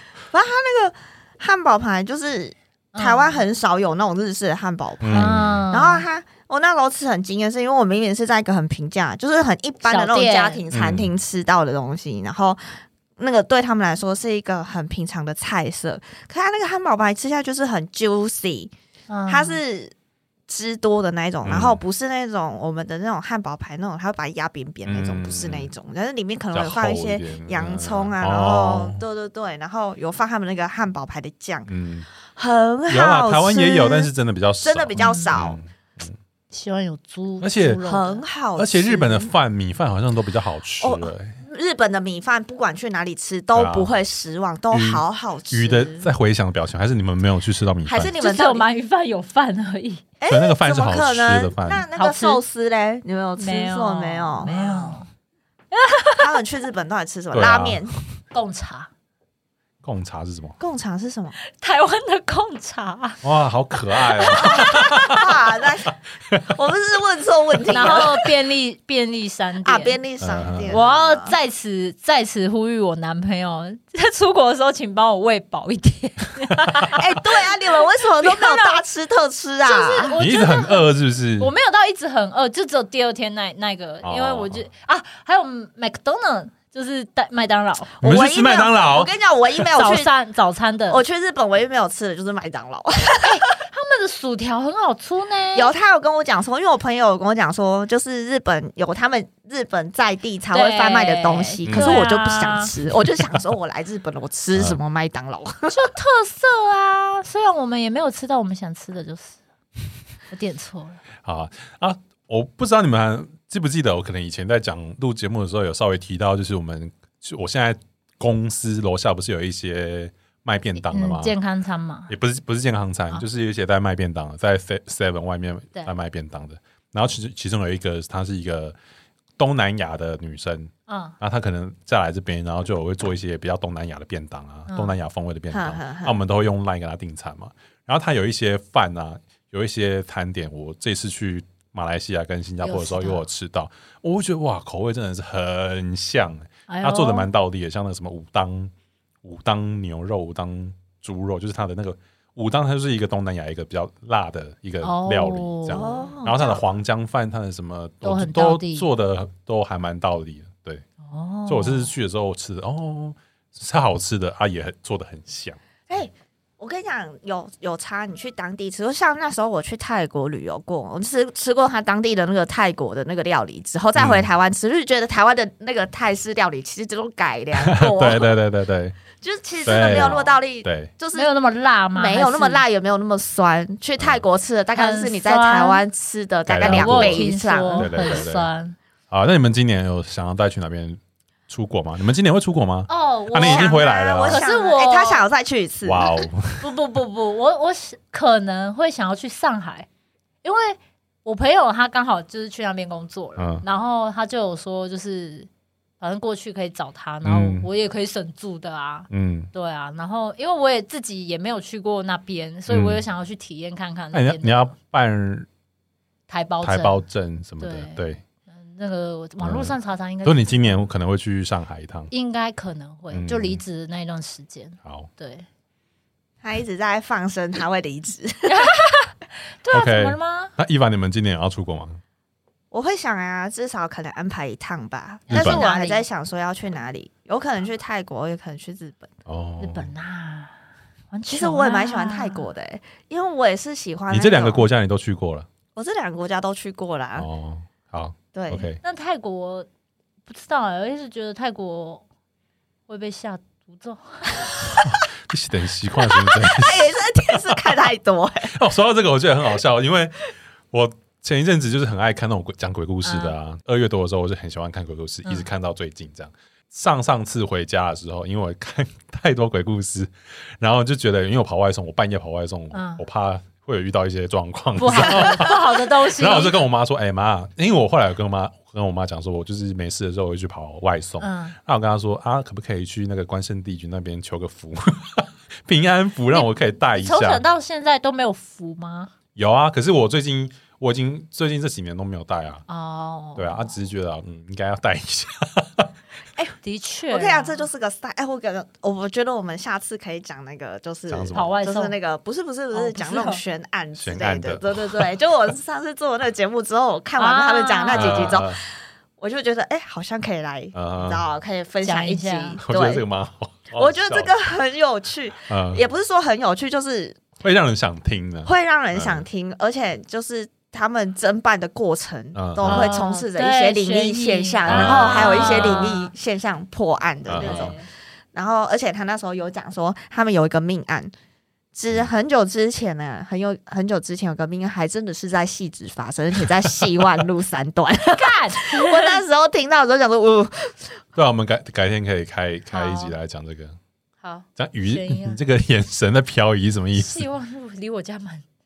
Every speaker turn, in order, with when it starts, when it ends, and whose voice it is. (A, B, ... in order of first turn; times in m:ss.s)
0:00.3-0:18.7 A
0:02.9-0:03.4 B
0:05.0-0:05.6 C
0:05.1-0:06.0 B
0:09.8-0:10.6 B
0:10.7-0:11.1 C
0:19.1-0:19.6 B
0:19.3-0:19.9 A
0:20.5-0:31.7 A
0:21.4-0:21.8 C
0:24.8-0:25.7 C
0:26.5-0:29.0 C
0:31.7-0:32.1 C
0:32.2-0:34.1 A
0:32.9-0:36.2 C
0:34.6-0:35.6 A
0:35.0-0:35.4 B
0:36.5-0:38.2 B
0:37.4-0:37.8 C
0:37.8-0:39.3 A
0:38.6-0:41.4 C
0:40.8-0:46.1 A
0:43.5-0:43.9 C
0:44.7-0:48.1 C
0:47.8-0:48.7 A
0:48.2-0:50.0 B
0:50.2-0:55.0 A
0:50.3-0:51.8 C
0:52.0-0:52.4 B
0:53.4-0:55.1 B
0:55.7-0:56.4 B
0:56.2-0:57.9 A
0:57.3-0:57.8 C
0:58.3-0:58.9 B
0:59.8-1:00.6 C
1:00.6-1:01.3 A
1:01.6-1:03.2 B
1:03.2-1:05.2 C
1:04.1-1:05.3 B
1:04.3-1:05.9 A
1:06.5-1:08.2 A
1:07.7-1:10.0 B
1:09.6-1:11.3 A
1:10.2-1:10.8 C
1:10.7-1:17.5 B
1:16.9-1:20.2 A
1:18.2-1:18.8 B
1:19.6-1:20.9 B
1:20.2-1:21.5 C
1:21.4-1:28.0 B
1:24.0-1:24.6 C
1:28.0-1:29.1 C
1:28.0-1:30.1 A
1:29.7-1:31.0 B
1:30.9-1:33.4 A
1:33.2-1:35.7 B
1:35.5-1:45.9 A
1:40.5-1:42.7 B
1:41.6-1:42.0 C
1:45.7-1:49.4 B
1:50.3-1:51.0 B
1:51.2-2:01.3 C
2:00.8-2:02.1 B
2:02.1-2:08.8 C
2:09.4-2:28.7 C
2:10.9-2:11.2 B
2:14.7-2:14.9 B
2:15.5-2:16.2 A
2:22.6-2:23.2 B
2:26.7-2:27.3 B
2:29.2-2:40.8 C
2:34.8-2:36.1 B
2:35.7-2:36.6 A
2:38.0-2:38.8 B
2:41.0-2:41.9 B
2:41.4-2:45.6 C
2:45.9-2:58.3 A
2:54.0-2:54.3 C
2:57.6-2:59.0 C
2:59.2-3:01.3 A
2:59.6-3:00.9 C
2:59.7-3:00.3 B
3:01.1-3:02.6 B
3:01.9-3:08.2 A
3:04.7-3:05.8 B
3:06.5-3:08.5 C
3:06.6-3:08.8 B
3:09.1-3:14.4 C
3:12.9-3:15.2 B
3:13.4-3:16.3 A
3:15.8-3:16.7 C
3:16.6-3:19.9 B
3:20.4-3:25.5 B
3:23.4-3:23.6 C
3:26.0-3:34.7 B
3:27.2-3:27.7 C
3:29.1-3:29.5 C
3:32.7-3:33.0 C
3:34.1-3:35.5 C
3:36.3-3:37.0 B
3:36.6-3:38.2 C
3:37.6-3:40.6 B
3:39.4-3:42.1 C
3:42.1-3:45.5 B
3:43.1-3:43.6 C
3:46.4-3:48.7 A
3:48.5-3:50.5 B
3:49.7-3:52.0 C
3:52.7-3:59.1 A
3:55.3-3:55.6 C
3:55.3-3:56.0 B
3:59.2-3:59.9 C
3:59.6-4:00.5 B
4:01.1-4:02.4 B
4:01.3-4:04.7 A
4:04.1-4:05.5 C
4:05.7-4:07.3 A
4:07.2-4:08.8 C
4:08.3-4:08.7 A
4:08.8-4:09.7 B
4:10.3-4:12.0 B
4:12.9-4:14.6 B
4:14.9-4:17.6 C
4:16.3-4:18.5 A
4:18.5-4:20.2 C
4:20.7-4:47.4 C
4:23.0-4:23.3 B
4:32.7-4:33.0 B
4:34.8-4:36.6 B
4:41.2-4:41.6 B
4:46.3-4:49.1 B
4:49.3-4:52.6 C
4:52.7-4:53.6 B
4:53.4-4:55.9 C
4:56.6-4:57.7 B
4:57.1-5:13.0 A
5:01.1-5:01.5 C
5:01.3-5:01.9 B
5:02.7-5:03.4 B
5:04.0-5:05.1 C
5:07.2-5:08.4 B
5:07.9-5:08.6 C
5:10.7-5:11.2 C
5:11.8-5:12.6 B
5:12.6-5:14.3 C
5:13.7-5:17.2 A
5:15.5-5:15.8 C
5:17.4-5:19.2 C
5:18.4-5:27.8 A
5:22.3-5:22.9 C
5:22.6-5:26.1 B
5:24.7-5:25.9 C
5:27.2-5:27.8 C
5:27.4-5:27.9 B
5:28.3-5:31.1 A
5:31.7-5:41.0 A
5:38.1-5:39.2 B
5:41.1-5:43.8 C
5:42.7-5:43.2 B
5:44.2-5:45.4 B
5:44.6-5:47.3 C
5:46.9-5:48.4 B